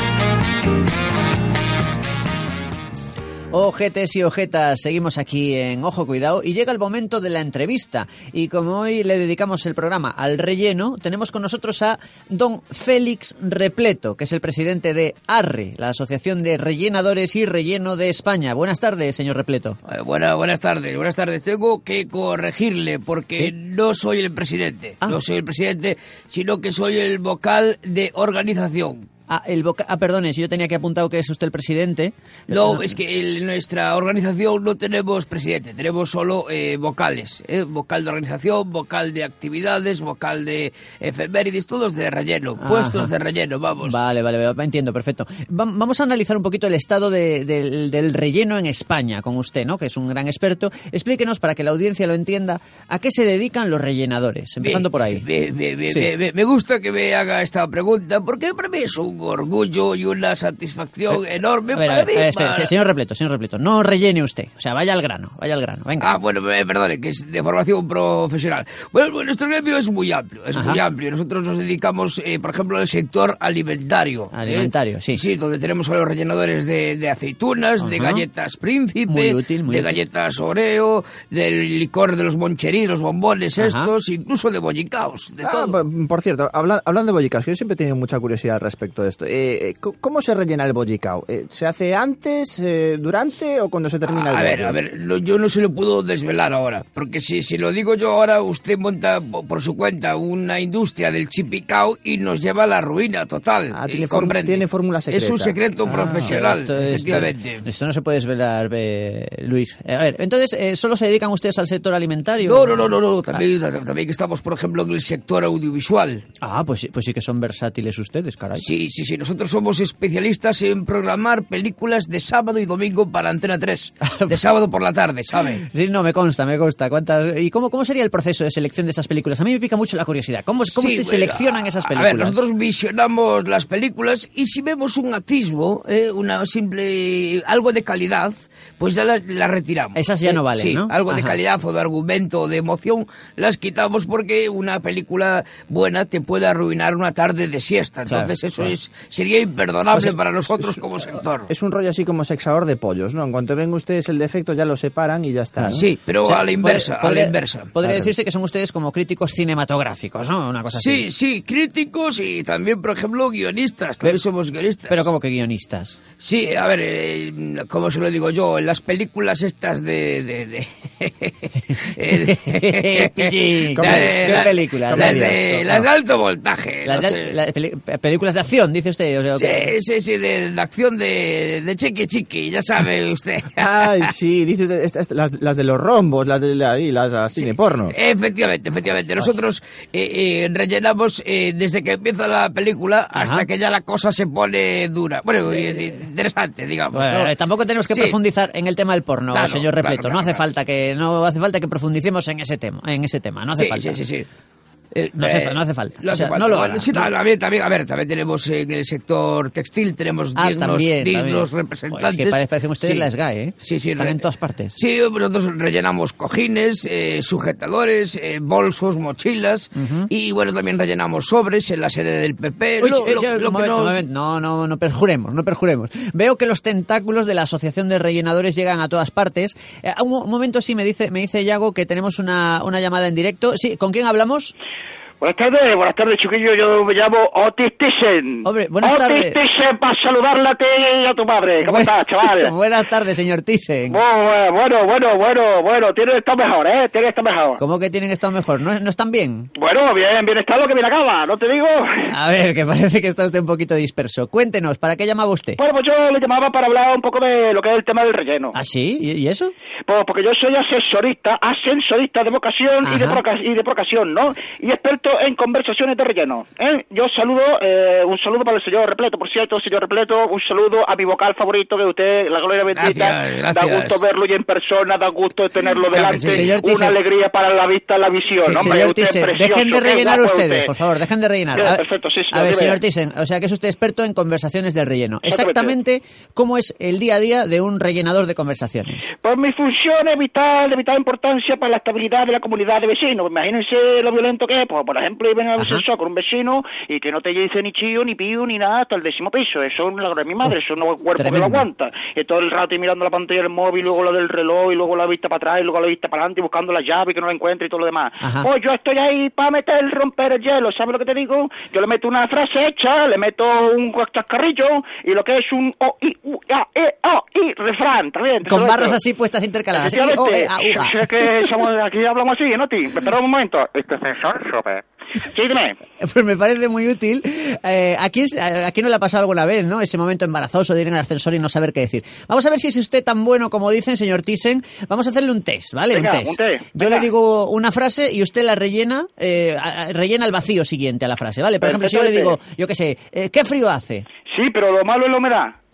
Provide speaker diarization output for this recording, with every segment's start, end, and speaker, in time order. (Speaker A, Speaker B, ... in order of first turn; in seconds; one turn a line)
Speaker A: 3.5-19.8
Speaker B: 19.9-29.0
Speaker A: 29.3-32.9
Speaker B: 32.5-44.0
Speaker A: 42.6-43.1
Speaker A: 43.8-55.2
Speaker B: 54.6-62.7
Speaker A: 61.7-66.1
Speaker B: 66.0-85.8
Speaker A: 70.5-70.8
Speaker A: 74.3-75.2
Speaker A: 77.8-78.2
Speaker A: 79.1-80.0
Speaker A: 83.6-83.9
Speaker C: 85.4-94.8
Speaker B: 94.0-107.6
Speaker C: 103.7-106.3
Speaker A: 105.9-113.4
Speaker B: 112.4-116.2
Speaker A: 116.4-118.6
Speaker B: 118.6-125.6
Speaker A: 124.0-124.3
Speaker A: 125.6-132.3
Speaker B: 130.7-151.5
Speaker A: 139.9-141.4
Speaker A: 148.1-148.7
Speaker C: 151.5-155.8
Speaker A: 155.6-161.0
Speaker B: 155.7-157.7
Speaker C: 157.8-158.1
Speaker B: 160.7-165.1
Speaker A: 164.9-166.0
Speaker B: 166.2-177.3
Speaker A: 172.0-175.9
Speaker C: 173.8-175.4
Speaker A: 176.8-179.7
Speaker B: 179.4-183.9
Speaker C: 183.6-187.9
Speaker B: 187.4-197.3
Speaker A: 193.2-193.4
Speaker A: 196.9-204.0
Speaker B: 197.9-198.2
Speaker B: 199.3-200.4
Speaker B: 203.6-204.3
Speaker B: 204.9-213.1
Speaker A: 205.2-207.1
Speaker A: 210.3-214.8
Speaker B: 213.6-214.2
Speaker B: 214.8-224.0
Speaker A: 219.7-220.1
Speaker A: 222.8-234.5
Speaker D: 235.2-242.5
Speaker A: 238.4-239.4
Speaker A: 241.6-244.0
Speaker D: 243.9-247.6
Speaker A: 247.6-249.5
Speaker D: 249.6-251.9
Speaker A: 252.1-255.6
Speaker D: 255.6-258.5
Speaker A: 258.5-259.5
Speaker D: 259.9-280.7
Speaker A: 262.8-263.2
Speaker B: 272.7-274.0
Speaker B: 275.9-276.5
Speaker A: 276.3-277.0
Speaker A: 278.4-289.1
Speaker D: 281.5-282.8
Speaker D: 285.3-285.7
Speaker D: 289.2-319.0
Speaker A: 295.6-295.8
Speaker A: 301.2-301.6
Speaker A: 308.2-308.5
Speaker A: 318.4-321.3
Speaker D: 319.7-325.8
Speaker A: 326.0-344.1
Speaker D: 335.9-337.1
Speaker D: 341.6-342.3
Speaker D: 344.3-345.5